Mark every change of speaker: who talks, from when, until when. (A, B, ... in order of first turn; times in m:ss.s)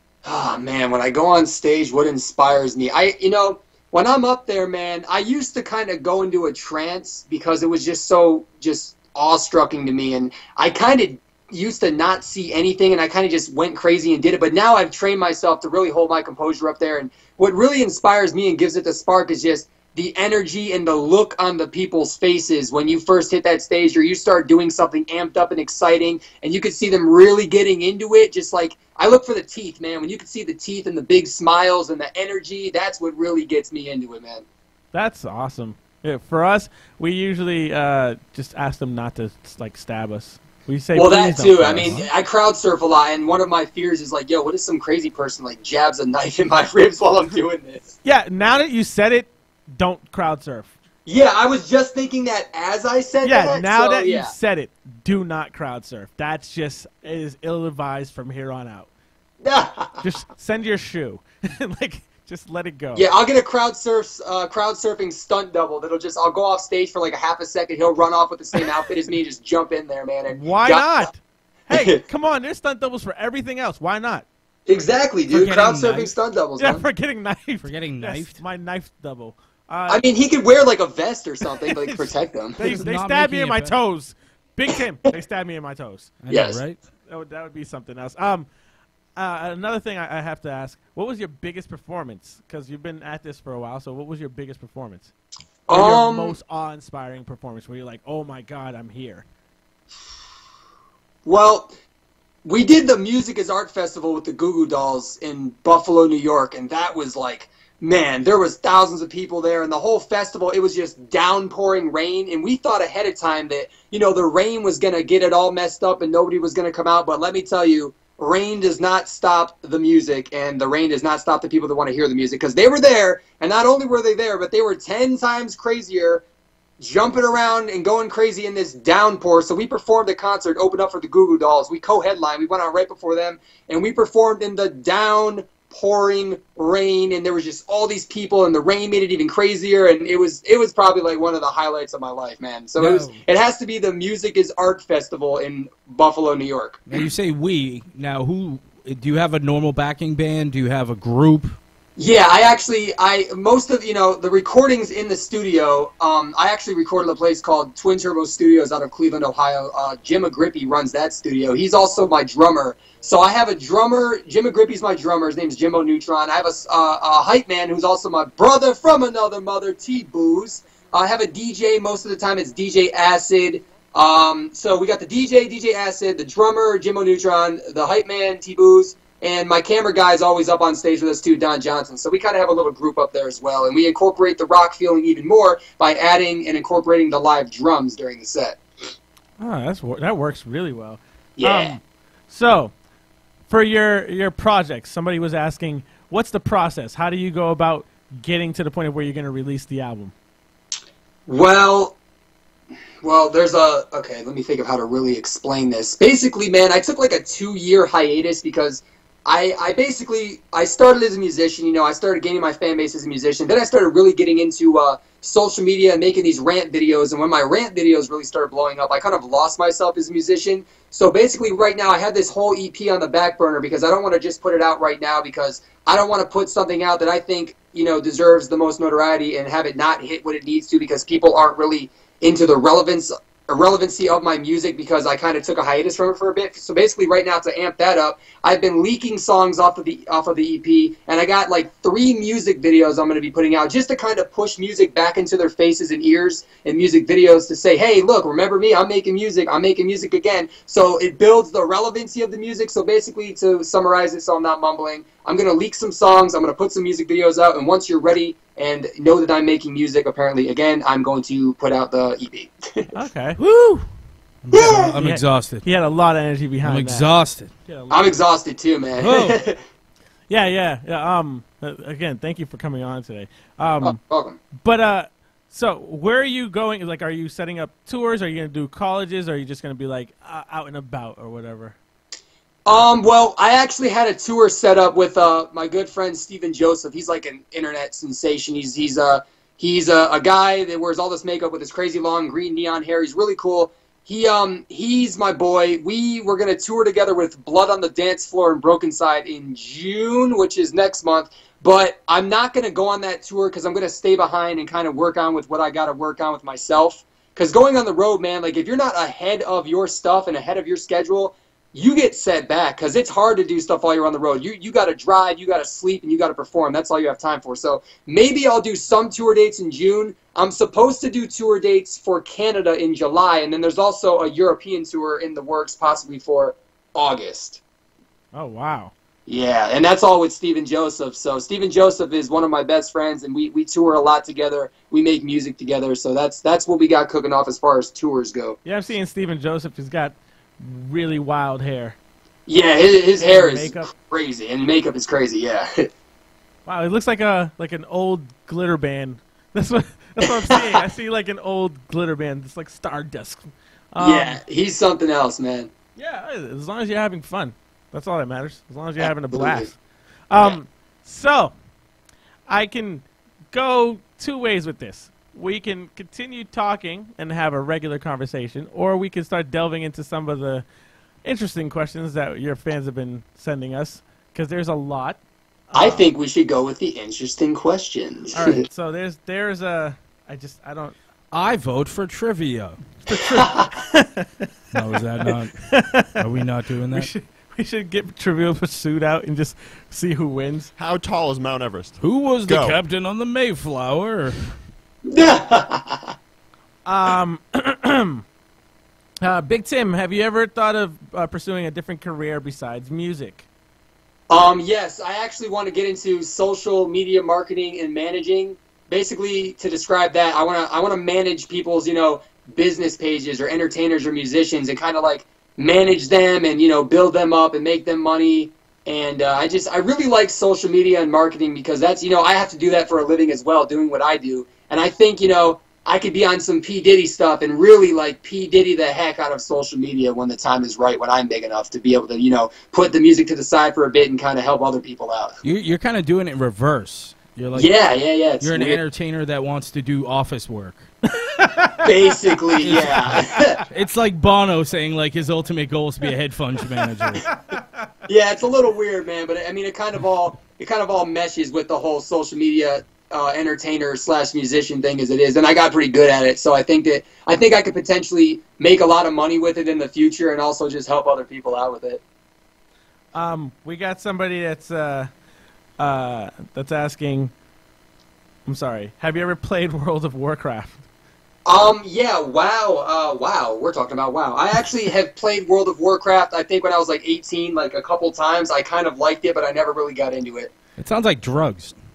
0:00.2-0:34.4 A
0:34.9-0:42.1 B
0:40.9-0:47.9 A
0:48.0-0:50.7 B
0:51.0-0:54.3 A
0:53.2-0:58.9 B
0:59.4-1:00.0 A
1:00.0-1:03.1 B
1:02.9-1:11.0 A
1:10.3-1:14.2 B
1:11.7-1:12.0 A
1:14.7-1:16.8 A
1:15.3-1:16.1 C
1:16.6-1:20.0 B
1:17.6-1:18.4 C
1:19.9-1:22.6 A
1:21.6-1:26.2 B
1:22.6-1:23.7 C
1:26.2-1:26.8 C
1:26.3-1:26.6 A
1:27.1-1:28.5 B
1:29.2-1:35.1 B
1:35.7-1:36.4 A
1:35.7-1:39.2 B
1:41.2-1:41.7 A
1:42.4-2:06.2 A
2:06.8-2:27.0 A
2:22.8-2:23.2 C
2:26.9-2:31.6 C
2:32.0-3:08.6 A
3:09.4-3:12.7 B
3:11.4-3:11.8 A
3:13.5-3:20.1 B
3:21.3-3:22.0 A
3:23.0-4:22.9 A
4:22.9-4:23.4 B
4:23.4-4:23.8 C
4:24.4-4:25.6 C
4:24.5-4:24.9 A
4:24.9-4:27.1 B
4:26.6-4:27.5 C
4:27.6-4:28.0 B
4:27.9-4:29.6 A
4:29.0-4:29.4 C
4:30.3-4:34.0 B
4:33.8-4:34.4 A
4:34.5-4:41.8 B
4:42.6-5:27.6 A
5:28.3-5:28.9 B
5:29.3-5:38.6 A
5:38.6-5:42.0 B
5:42.5-5:45.9 A
5:43.2-5:43.9 B
5:46.6-5:54.4 B
5:50.2-5:50.8 A
5:54.0-5:55.7 A
5:56.0-5:59.7 B
5:59.3-5:59.7 A
6:00.3-6:01.5 B
6:02.5-6:10.6 B
6:11.2-6:15.2 B
6:15.7-6:16.1 B
6:15.7-6:18.6 A
6:18.3-6:21.0 B
6:21.3-6:22.8 C
6:23.0-6:24.5 B
6:23.4-6:23.7 A
6:24.7-6:27.1 C
6:25.2-6:26.2 B
6:26.9-6:30.7 B
6:30.8-6:32.8 D
6:32.0-6:34.5 C
6:35.0-6:36.1 A
6:36.8-6:38.2 B
6:39.2-6:43.4 B
6:44.3-7:15.4 A
7:15.4-7:17.7 C
7:17.5-7:18.8 A
7:18.4-7:20.8 C
7:21.2-7:21.9 B
7:21.8-7:23.6 A
7:22.6-7:23.2 C
7:23.7-7:27.3 C
7:26.8-7:27.8 B
7:28.1-7:42.0 A
7:43.1-7:45.1 B
7:45.8-7:47.3 B
7:48.4-7:50.8 B
7:51.4-8:00.5 A
8:00.8-8:01.7 C